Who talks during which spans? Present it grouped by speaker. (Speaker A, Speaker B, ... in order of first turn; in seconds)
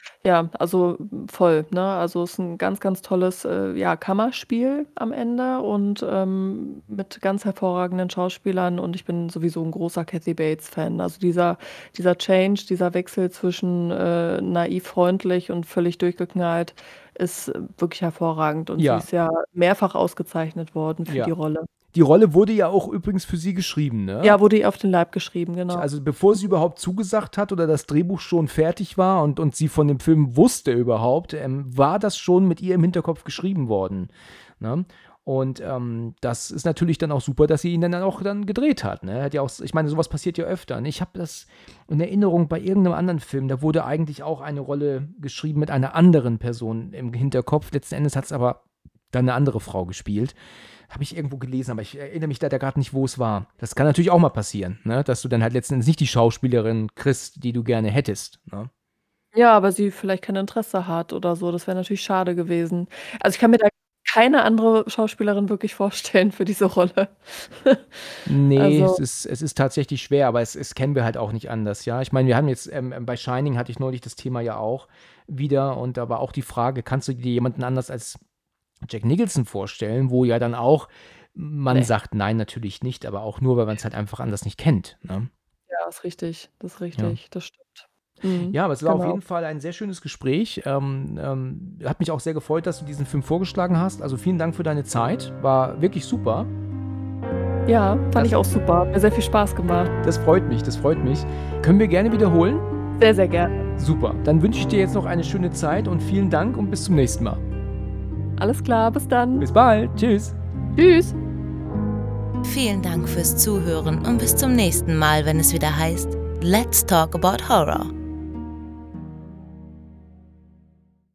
Speaker A: 0.2-21.6, 24.2-25.9, 59.3-68.0, 68.5-69.0, 85.7-89.2, 97.7-99.9, 103.0-103.6, 108.4-109.5, 110.7-111.2
Speaker B: 18.8-19.1, 21.1-21.3, 21.9-24.4, 25.7-50.4, 50.9-58.7, 68.2-78.2, 78.8-85.3, 88.5-96.5, 100.0-102.6, 103.8-107.4, 109.4-110.3
Speaker C: 112.4-117.9